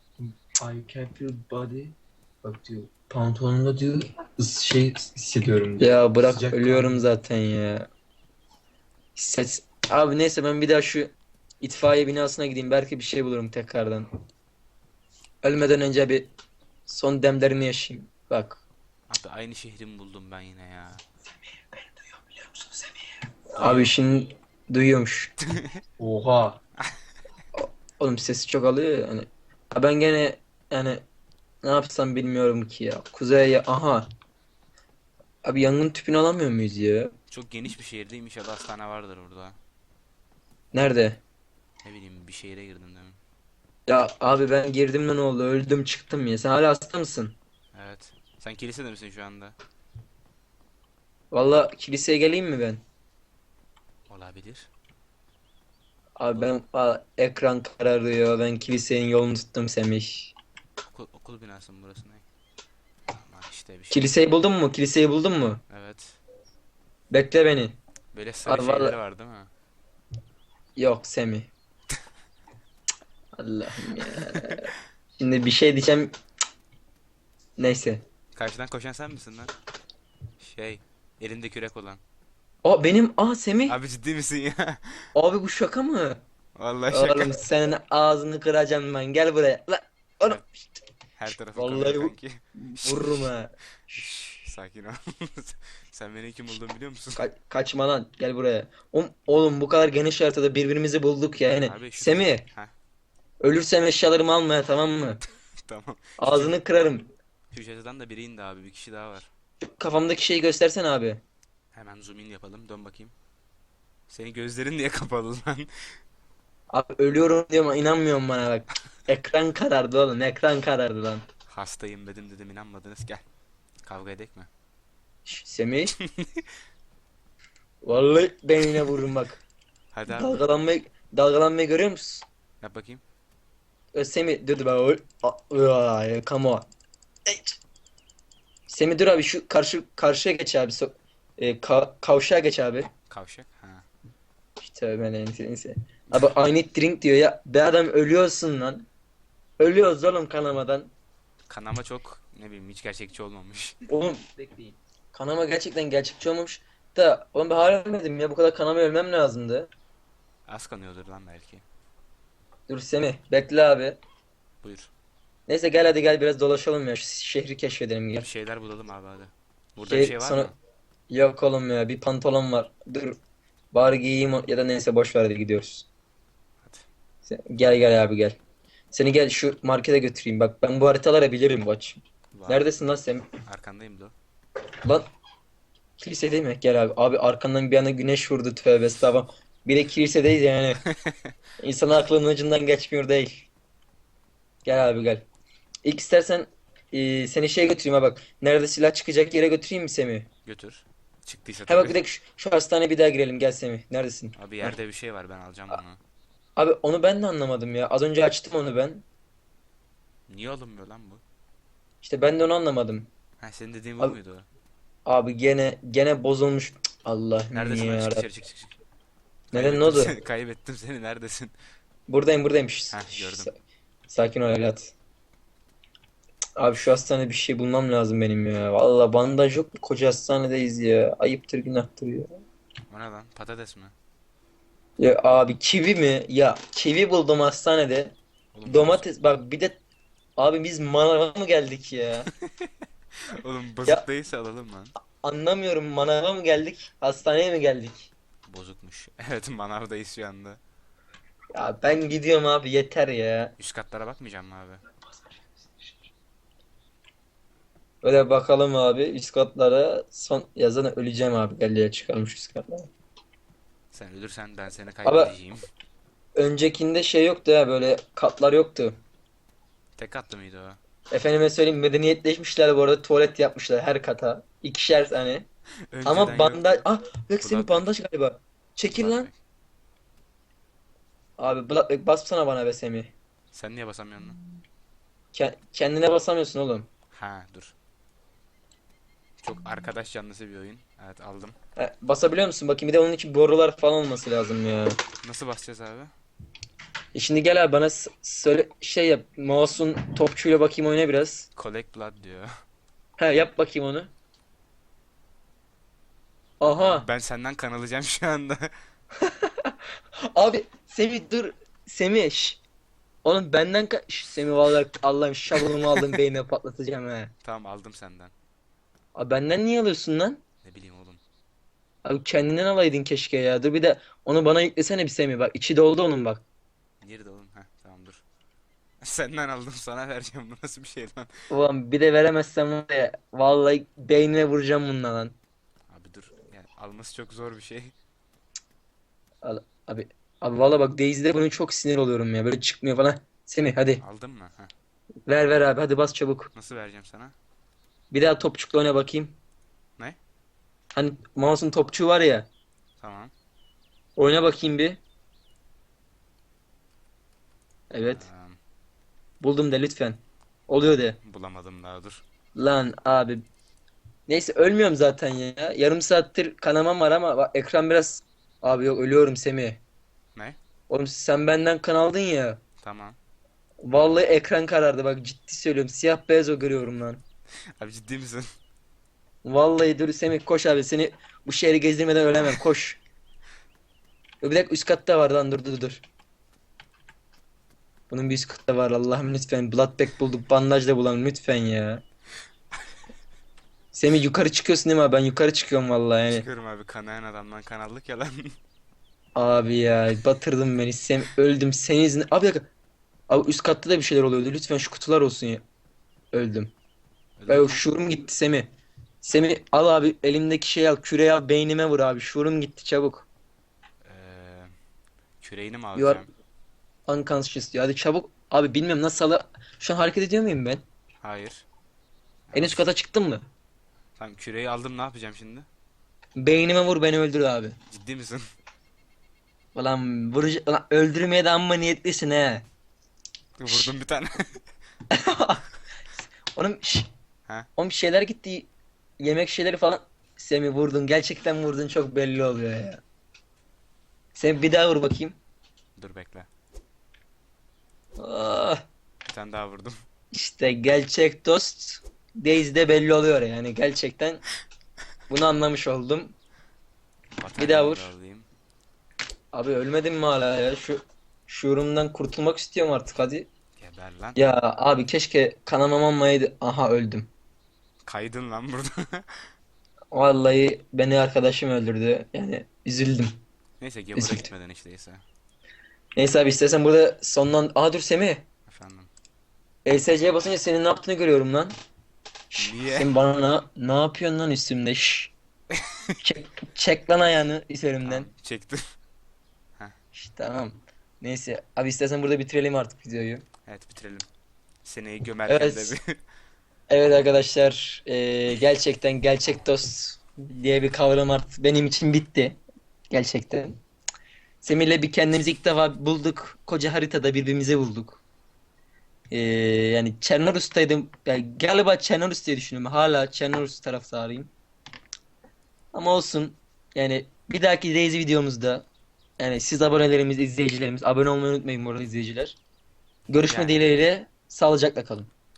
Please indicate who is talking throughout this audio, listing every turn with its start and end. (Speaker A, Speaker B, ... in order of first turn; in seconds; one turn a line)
Speaker A: 0.2-7.0
Speaker B: 5.8-7.9
Speaker B: 9.2-14.1
Speaker B: 15.4-16.3
Speaker B: 16.9-18.6
Speaker C: 19.1-21.0
Speaker C: 23.6-23.9
Speaker B: 23.6-25.3
Speaker C: 25.5-25.8
Speaker A: 26.0-26.6
Speaker B: 27.6-31.0
Speaker B: 31.6-34.0
Speaker B: 35.5-37.1
Speaker C: 37.3-39.6
Speaker B: 40.7-41.2
Speaker C: 41.8-43.2
Speaker B: 43.9-47.4
Speaker C: 47.7-49.5
Speaker B: 51.3-52.8
Speaker C: 54.1-54.7
Speaker B: 56.2-60.3
Speaker C: 60.9-62.2
Speaker C: 63.1-64.1
Speaker B: 63.9-65.6
Speaker C: 65.7-66.2
Speaker B: 67.1-67.8
Speaker C: 68.1-69.5
Speaker B: 68.5-69.0
Speaker B: 70.8-71.5
Speaker B: 73.4-76.1
Speaker C: 74.1-74.6
Speaker B: 77.6-78.0
Speaker C: 78.3-79.5
Speaker C: 80.4-82.0
Speaker B: 82.7-83.8
Speaker C: 83.7-85.1
Speaker B: 85.2-86.2
Speaker C: 86.6-87.4
Speaker B: 86.9-90.5
Speaker C: 91.2-93.3
Speaker B: 91.4-94.1
Speaker C: 93.9-97.2
Speaker B: 97.2-102.5
Speaker C: 101.6-102.7
Speaker B: 103.4-105.2
Speaker C: 105.7-106.6
Speaker B: 106.2-107.1
Speaker C: 107.5-109.3
Speaker B: 109.7-111.2
Speaker C: 111.7-113.1
Speaker C: 114.1-115.7
Speaker B: 116.7-121.2
Speaker C: 121.5-123.2
Speaker C: 123.8-124.5
Speaker B: 125.3-126.0
Speaker C: 126.0-126.5
Speaker B: 127.8-129.4
Speaker C: 129.9-130.4
Speaker B: 130.1-132.3
Speaker C: 132.6-133.0
Speaker B: 133.9-136.7
Speaker B: 137.3-137.6
Speaker B: 138.7-142.9
Speaker C: 143.1-143.9
Speaker B: 144.6-148.9
Speaker B: 149.6-150.9
Speaker C: 151.5-153.8
Speaker B: 153.9-159.7
Speaker C: 160.5-161.6
Speaker B: 162.7-164.0
Speaker C: 164.6-164.9
Speaker B: 165.5-168.3
Speaker C: 168.2-170.6
Speaker B: 169.8-170.5
Speaker B: 171.1-173.2
Speaker B: 173.7-175.9
Speaker B: 177.2-178.4
Speaker B: 178.9-183.3
Speaker C: 182.3-182.7
Speaker C: 183.5-184.2
Speaker B: 186.0-190.8
Speaker C: 190.9-191.2
Speaker B: 191.6-193.5
Speaker B: 194.7-195.2
Speaker B: 195.8-200.3
Speaker C: 200.4-202.0
Speaker B: 201.7-204.8
Speaker C: 204.4-206.0
Speaker B: 206.6-209.0
Speaker C: 210.3-211.2
Speaker B: 212.0-213.1
Speaker C: 213.4-214.5
Speaker B: 215.1-218.3
Speaker C: 217.5-218.8
Speaker B: 219.5-220.1
Speaker C: 219.5-221.5
Speaker B: 222.1-223.5
Speaker C: 222.9-223.5
Speaker B: 224.1-224.9
Speaker B: 226.6-232.4
Speaker C: 232.9-233.9
Speaker B: 235.0-238.2
Speaker C: 238.5-239.1
Speaker B: 238.7-239.8
Speaker B: 240.4-242.3
Speaker C: 242.3-242.7
Speaker C: 243.4-244.9
Speaker B: 245.2-248.1
Speaker C: 248.5-250.6
Speaker B: 251.5-253.5
Speaker C: 253.6-254.8
Speaker B: 258.0-262.9
Speaker C: 263.9-265.6
Speaker B: 265.1-265.3
Speaker B: 266.4-269.0
Speaker C: 270.0-270.8
Speaker B: 271.1-275.5
Speaker C: 275.9-276.8
Speaker B: 276.1-279.3
Speaker C: 277.4-277.9
Speaker C: 278.9-279.4
Speaker B: 281.4-283.1
Speaker C: 283.5-284.4
Speaker B: 285.3-286.9
Speaker C: 287.1-287.7
Speaker C: 289.4-291.6
Speaker B: 291.8-295.0
Speaker C: 295.2-296.1
Speaker B: 297.1-301.5
Speaker C: 301.6-302.5
Speaker B: 303.2-304.1
Speaker B: 306.6-307.1
Speaker C: 306.6-308.7
Speaker B: 309.2-309.7
Speaker B: 310.3-312.6
Speaker B: 313.2-317.3
Speaker C: 315.6-316.1
Speaker C: 317.4-318.3
Speaker B: 319.2-320.4
Speaker C: 320.6-321.2
Speaker B: 322.1-326.4
Speaker C: 327.0-328.2
Speaker C: 329.0-331.3
Speaker B: 331.5-335.4
Speaker C: 335.9-337.9
Speaker B: 339.4-344.0
Speaker C: 344.0-344.7
Speaker B: 345.3-346.5
Speaker C: 346.5-347.4
Speaker B: 348.1-349.4
Speaker B: 350.9-352.5
Speaker C: 353.0-353.3
Speaker B: 354.2-355.0
Speaker B: 357.9-358.2
Speaker C: 358.0-358.6
Speaker B: 359.4-361.2
Speaker C: 361.2-362.2
Speaker B: 362.6-363.4
Speaker B: 364.3-369.8
Speaker B: 370.9-372.6
Speaker C: 372.8-373.2
Speaker B: 373.8-377.2
Speaker C: 377.8-378.5
Speaker B: 379.4-383.0
Speaker B: 384.4-386.0
Speaker B: 388.1-392.0
Speaker B: 393.9-396.4
Speaker C: 396.3-398.6
Speaker B: 399.4-402.7
Speaker B: 403.3-405.6
Speaker B: 406.3-406.7
Speaker C: 407.4-407.8
Speaker B: 407.5-408.7
Speaker B: 409.2-413.3
Speaker C: 414.0-414.7
Speaker C: 415.4-416.3
Speaker B: 416.0-416.2
Speaker B: 417.1-420.8
Speaker C: 421.2-421.6
Speaker C: 422.5-422.8
Speaker B: 422.5-423.4
Speaker C: 424.2-425.7
Speaker B: 426.4-427.8
Speaker C: 427.9-428.4
Speaker B: 429.8-432.6
Speaker C: 433.6-434.6
Speaker B: 435.1-435.6
Speaker B: 436.5-437.1
Speaker B: 437.8-438.7
Speaker B: 439.2-443.0
Speaker B: 444.4-445.4
Speaker C: 446.0-446.5
Speaker B: 448.2-448.8
Speaker C: 449.3-449.9
Speaker B: 450.3-454.4
Speaker B: 455.3-456.3
Speaker C: 457.4-458.5
Speaker B: 457.6-458.1
Speaker B: 459.5-463.5
Speaker C: 463.8-464.4
Speaker B: 464.4-467.3
Speaker C: 468.1-469.3
Speaker B: 470.1-473.4
Speaker C: 473.8-475.2
Speaker B: 474.1-474.5
Speaker B: 476.2-478.4
Speaker C: 478.7-479.1
Speaker B: 479.9-481.7
Speaker B: 482.5-485.3
Speaker C: 482.6-483.1
Speaker C: 485.7-486.2
Speaker B: 486.2-488.3
Speaker C: 488.1-488.8
Speaker B: 490.1-493.4
Speaker C: 493.7-494.3
Speaker C: 494.9-496.2
Speaker B: 495.5-495.9
Speaker B: 496.9-502.6
Speaker B: 503.1-503.8
Speaker B: 504.6-508.2
Speaker B: 509.3-514.5
Speaker B: 515.9-518.9
Speaker B: 519.4-522.6
Speaker B: 523.3-525.3
Speaker C: 523.4-523.8